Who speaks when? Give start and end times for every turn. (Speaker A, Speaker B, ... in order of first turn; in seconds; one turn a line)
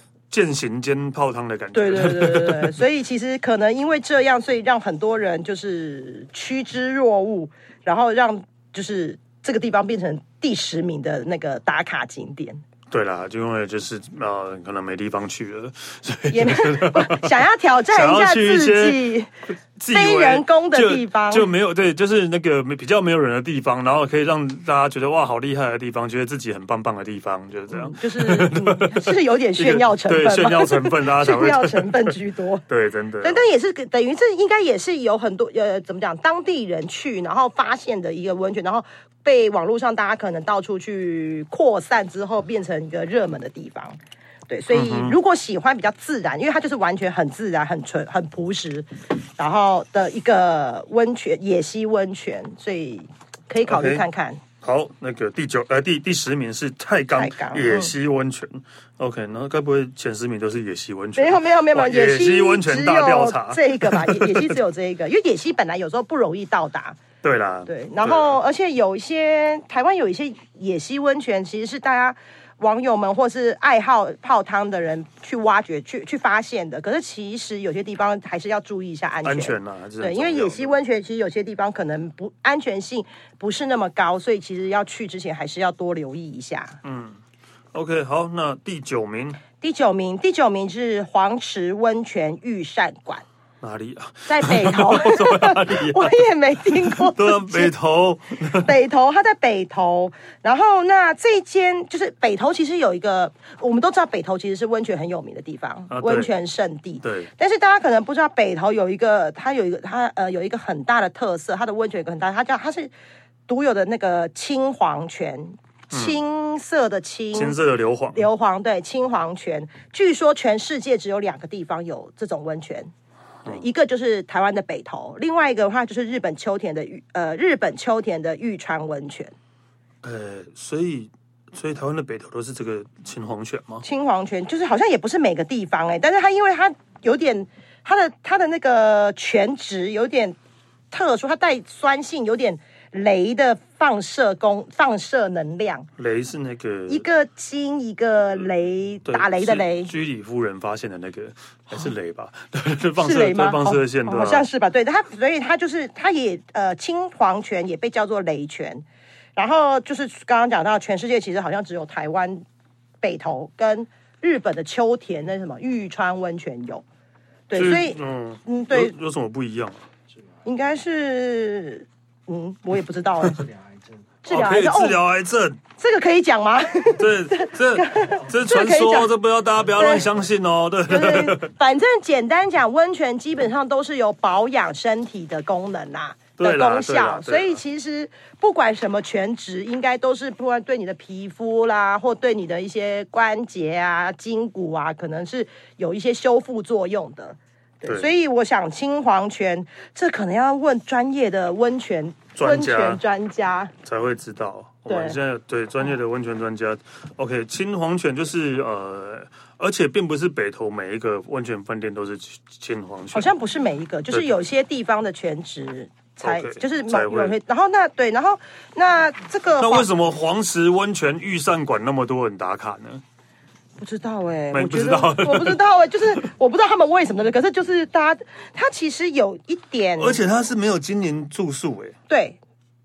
Speaker A: 0.3-2.7
Speaker B: 1.7-12.6
Speaker A: 12.9-17.4
Speaker B: 16.3-19.3
Speaker A: 17.9-19.1
Speaker A: 19.8-32.2
Speaker B: 19.9-21.5
Speaker B: 27.7-32.6
Speaker A: 32.7-33.4
Speaker B: 33.2-44.0
Speaker B: 44.5-54.4
Speaker A: 44.7-45.2
Speaker A: 53.7-54.0
Speaker A: 54.6-64.6
Speaker B: 57.1-57.9
Speaker B: 61.2-67.0
Speaker A: 67.2-68.4
Speaker B: 67.7-86.8
Speaker A: 79.2-80.8
Speaker A: 86.8-87.2
Speaker A: 87.7-89.4
Speaker B: 89.6-93.2
Speaker A: 93.6-96.1
Speaker B: 94.3-97.7
Speaker A: 96.7-98.7
Speaker B: 98.5-112.9
Speaker A: 105.9-106.3
Speaker A: 107.0-107.3
Speaker B: 113.5-117.6
Speaker A: 115.9-116.2
Speaker A: 117.3-118.2
Speaker B: 118.1-122.9
Speaker B: 123.5-129.3
Speaker A: 130.0-133.8
Speaker B: 133.8-140.4
Speaker B: 140.9-145.9
Speaker A: 146.0-147.1
Speaker B: 146.9-149.9
Speaker A: 149.1-154.4
Speaker B: 153.0-158.8
Speaker B: 159.4-162.4
Speaker B: 163.0-166.8
Speaker B: 167.5-168.9
Speaker A: 167.5-169.8
Speaker B: 170.4-173.5
Speaker B: 174.2-175.0
Speaker A: 174.3-175.6
Speaker B: 175.8-179.1
Speaker A: 177.0-181.5
Speaker B: 179.8-180.1
Speaker B: 180.9-203.7
Speaker A: 186.4-187.6
Speaker A: 202.4-203.0
Speaker A: 203.8-213.3
Speaker B: 204.9-205.2
Speaker B: 213.1-219.9
Speaker A: 214.1-214.4
Speaker A: 216.2-217.4
Speaker A: 219.6-223.0
Speaker B: 223.8-230.2
Speaker A: 224.5-226.2
Speaker A: 230.0-231.9
Speaker B: 232.1-232.4